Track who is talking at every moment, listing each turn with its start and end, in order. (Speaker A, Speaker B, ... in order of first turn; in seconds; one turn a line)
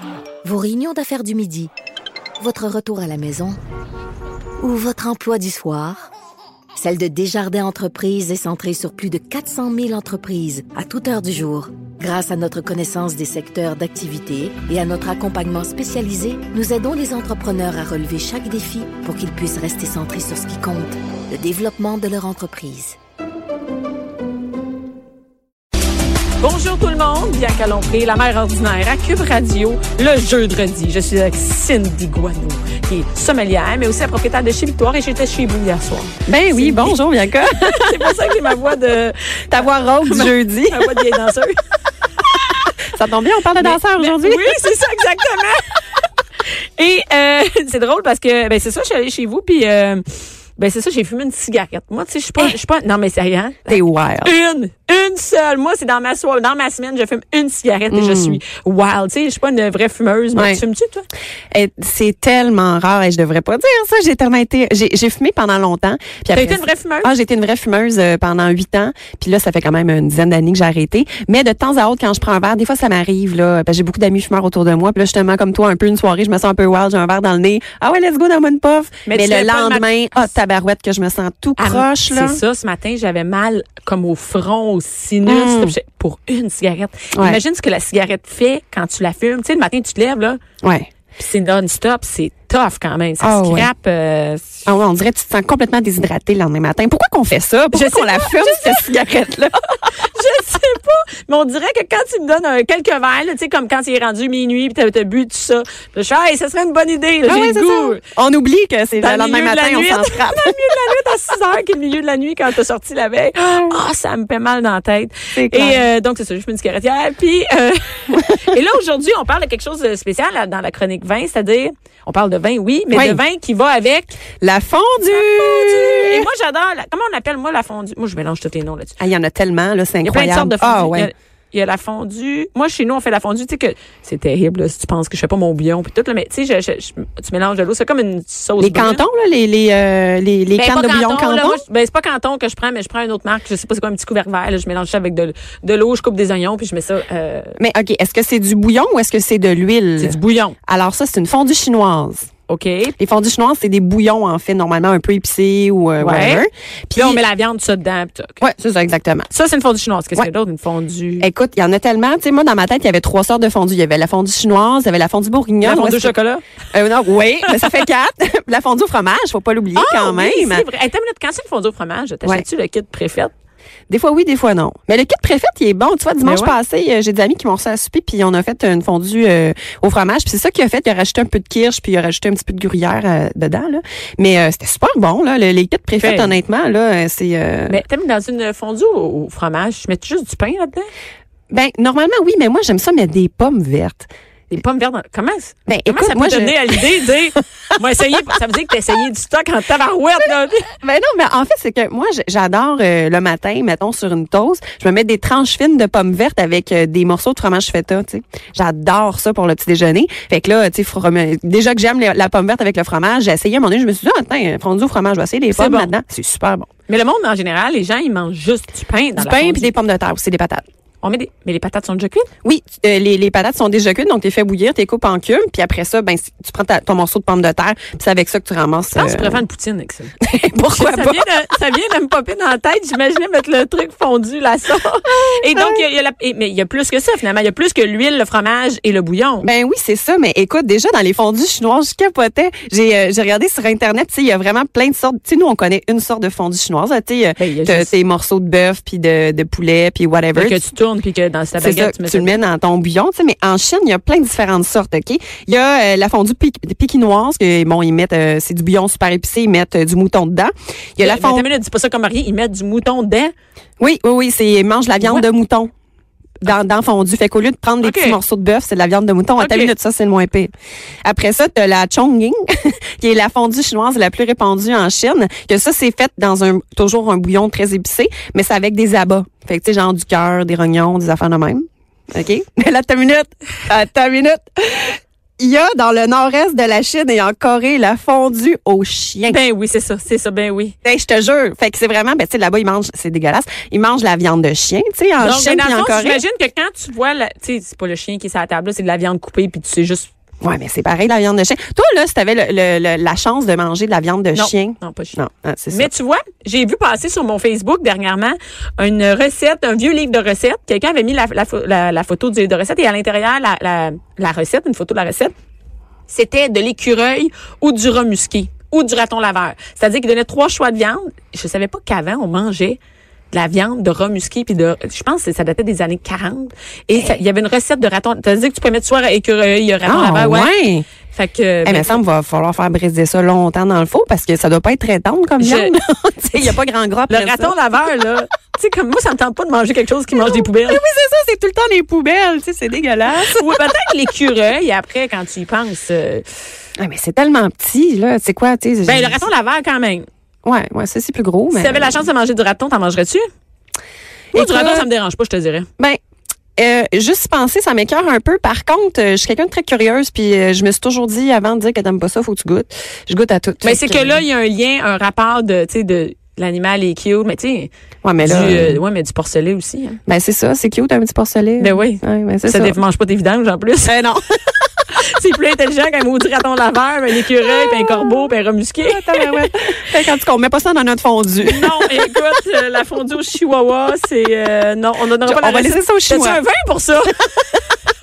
Speaker A: 0.4-1.7
Speaker A: 2.4-3.6
Speaker A: 4.6-6.1
Speaker A: 6.8-23.0
Speaker B: 26.4-37.0
Speaker C: 36.3-38.1
Speaker B: 37.5-41.6
Speaker C: 39.5-41.1
Speaker B: 42.4-42.7
Speaker C: 42.9-44.5
Speaker B: 43.6-45.6
Speaker B: 46.8-61.1
Speaker C: 53.7-54.3
Speaker C: 57.9-58.4
Speaker C: 60.4-60.6
Speaker C: 61.5-82.4
Speaker B: 66.3-67.1
Speaker B: 79.1-79.9
Speaker B: 81.6-90.4
Speaker C: 85.3-85.8
Speaker C: 87.1-87.4
Speaker B: 91.2-94.7
Speaker C: 93.2-93.7
Speaker C: 94.7-99.6
Speaker B: 97.7-98.9
Speaker B: 99.8-108.0
Speaker C: 107.2-110.6
Speaker B: 109.0-124.2
Speaker C: 115.3-115.8
Speaker C: 122.9-123.2
Speaker C: 124.4-126.3
Speaker B: 125.1-128.9
Speaker C: 129.0-131.1
Speaker B: 130.0-139.0
Speaker C: 138.6-141.6
Speaker B: 140.5-147.6
Speaker C: 147.6-152.3
Speaker B: 150.0-150.6
Speaker B: 152.5-153.0
Speaker C: 153.0-157.2
Speaker B: 156.0-158.4
Speaker C: 158.4-159.3
Speaker B: 159.3-161.3
Speaker C: 161.2-166.1
Speaker B: 165.6-166.4
Speaker C: 166.7-170.7
Speaker B: 169.8-173.3
Speaker C: 173.9-187.8
Speaker B: 176.2-176.6
Speaker B: 186.0-186.3
Speaker B: 187.7-190.9
Speaker C: 191.5-194.1
Speaker B: 194.5-200.7
Speaker C: 195.7-196.9
Speaker C: 200.8-216.7
Speaker B: 215.5-215.9
Speaker B: 216.9-219.7
Speaker C: 219.2-220.6
Speaker B: 221.0-222.3
Speaker C: 222.4-229.4
Speaker B: 228.9-230.2
Speaker C: 230.2-231.3
Speaker B: 230.7-239.5
Speaker C: 235.1-235.8
Speaker C: 239.4-250.6
Speaker B: 247.4-247.9
Speaker B: 250.3-252.4
Speaker C: 251.6-261.5
Speaker B: 261.0-263.3
Speaker C: 263.8-265.7
Speaker B: 265.0-265.3
Speaker C: 266.4-270.5
Speaker B: 267.8-268.2
Speaker B: 269.4-269.7
Speaker C: 271.1-289.4
Speaker B: 289.3-290.8
Speaker C: 290.8-296.2
Speaker B: 295.2-300.1
Speaker C: 300.4-305.9
Speaker B: 304.3-315.3
Speaker B: 316.1-322.8
Speaker B: 323.3-330.5
Speaker C: 326.9-327.2
Speaker C: 329.9-330.9
Speaker B: 331.1-332.0
Speaker C: 331.6-337.6
Speaker B: 335.4-335.8
Speaker B: 337.1-340.8
Speaker C: 340.1-343.7
Speaker B: 343.2-346.2
Speaker C: 346.8-349.2
Speaker B: 348.8-350.1
Speaker C: 350.4-352.1
Speaker B: 351.5-353.3
Speaker C: 354.3-354.9
Speaker B: 354.3-355.7
Speaker C: 356.6-364.2
Speaker B: 363.6-370.0
Speaker C: 368.0-368.8
Speaker C: 370.1-372.8
Speaker B: 371.6-374.1
Speaker C: 373.9-374.2
Speaker B: 374.9-379.5
Speaker C: 377.4-378.2
Speaker C: 378.8-382.1
Speaker B: 381.4-387.6
Speaker C: 385.2-386.4